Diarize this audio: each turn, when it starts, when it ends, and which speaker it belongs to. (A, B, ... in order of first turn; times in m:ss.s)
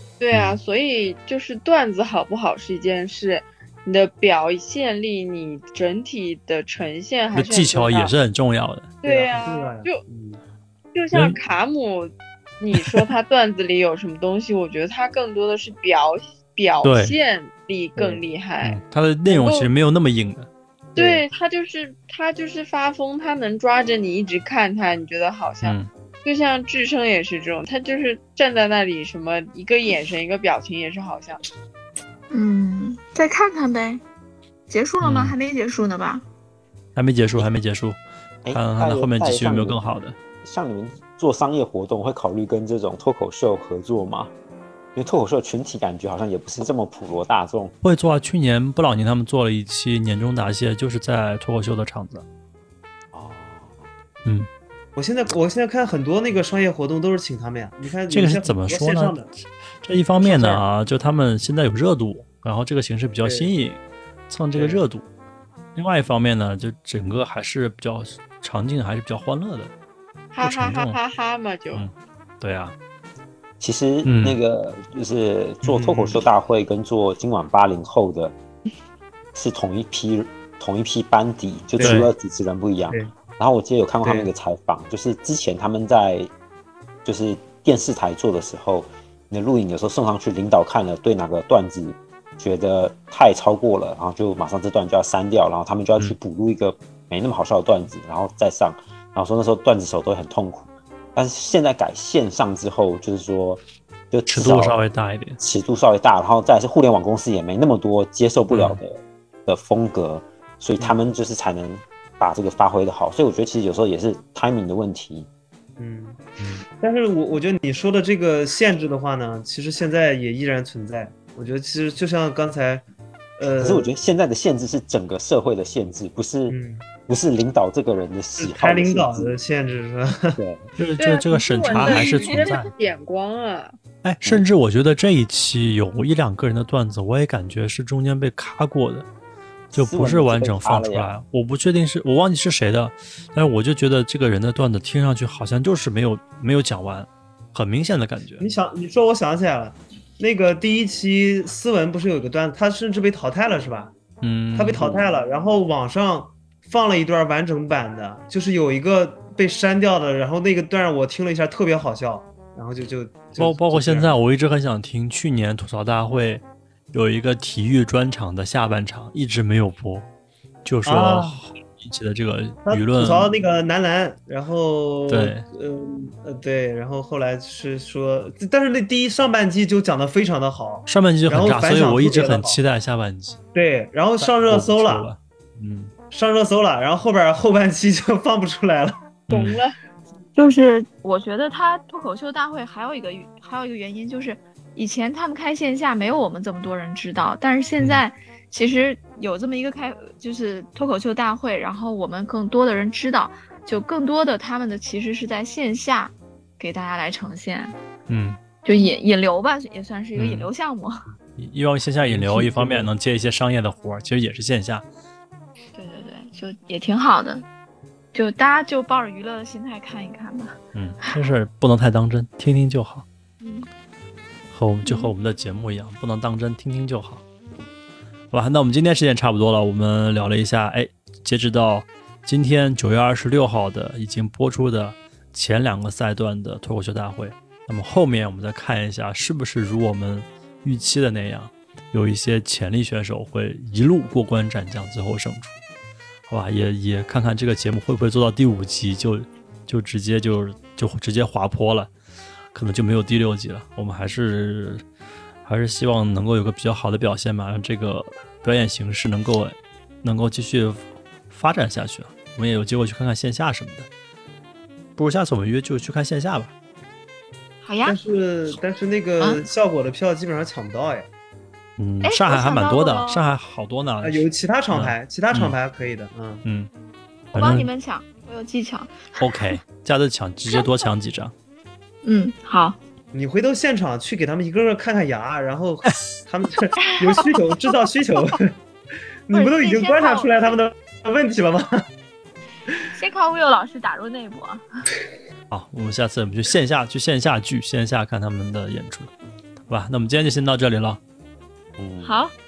0:00.2-0:08.1 A
0:00.3-0:00.6 B
0:07.3-0:08.9 B
0:09.0-0:10.0 A
0:09.0-0:10.4 C
0:10.9-0:19.7 A
0:11.1-0:11.4 B
0:16.8-0:17.2 B
0:18.0-0:20.5 B
0:20.9-0:31.4 A
0:21.0-0:21.2 C
0:25.6-0:25.9 B
0:32.3-0:34.0 D
0:34.7-0:36.2 D
0:35.0-0:35.4 B
0:37.0-0:40.2 B
0:38.4-0:44.3 E
0:44.9-0:47.7 E
0:47.8-0:52.2 B
0:53.1-0:53.8 E
0:55.0-0:59.3 C
0:58.1-0:59.2 B
0:59.8-1:05.1 B
1:00.2-1:00.6 C
1:03.2-1:03.5 C
1:04.5-1:04.8 C
1:05.8-1:09.7 B
1:10.3-1:11.8 A
1:10.4-1:11.0 B
1:11.7-1:12.7 B
1:13.6-1:18.4 E
1:14.0-1:14.4 B
1:15.6-1:16.2 C
1:19.3-1:26.3 E
1:21.8-1:22.0 C
1:21.8-1:22.1 B
1:24.0-1:24.3 C
1:27.0-1:44.8 E
1:44.3-1:45.4 B
1:45.4-1:55.3 E
1:48.5-1:48.8 B
1:55.8-1:56.2 C
1:56.8-2:02.8 C
2:03.4-2:03.9 C
2:03.6-2:09.3 E
2:06.5-2:06.8 C
2:08.4-2:10.4 C
2:10.4-2:10.6 E
2:10.8-2:12.7 B
2:11.0-2:13.7 A
2:14.0-2:19.0 B
2:19.7-2:21.1 E
2:19.7-2:28.5 B
2:28.4-2:33.9 C
2:34.2-2:35.1 B
2:34.5-2:44.1 C
2:43.4-2:50.0 B
2:50.6-2:53.3 B
2:50.8-2:51.4 C
2:52.6-3:02.6 C
2:55.1-2:55.4 B
3:00.9-3:03.4 B
3:03.5-3:05.1 C
3:04.2-3:05.9 B
3:06.1-3:09.0 C
3:09.3-3:09.6 B
3:09.3-3:09.8 A
3:10.3-3:27.7 D
3:28.1-3:28.4 B
3:28.6-3:31.0 D
3:30.1-3:30.5 B
3:31.4-3:34.8 B
3:32.0-3:32.9 C
3:35.7-3:37.4 D
3:38.1-3:40.6 D
3:40.7-3:43.0 B
3:43.4-3:43.7 D
3:44.5-3:47.2 B
3:44.8-3:45.1 D
3:48.3-4:05.6 B
4:06.3-4:11.9 B
4:12.5-4:14.8 B
4:15.4-4:23.9 B
4:25.0-4:26.5 B
4:27.6-4:28.0 D
4:27.8-4:31.1 C
4:29.2-4:29.4 D
4:31.8-4:35.6 B
4:32.0-4:33.2 D
4:34.0-4:36.4 C
4:36.4-4:36.7 B
4:37.3-4:37.7 B
4:37.3-4:39.2 D
4:39.2-4:41.3 B
4:42.0-4:42.8 D
4:43.1-4:48.6 C
4:46.8-4:47.2 D
4:49.3-4:51.8 C
4:49.3-4:50.6 D
4:52.9-4:54.6 D
4:55.5-4:59.1 B
4:59.7-5:01.0 B
5:01.8-5:02.2 E
5:02.0-5:02.3 D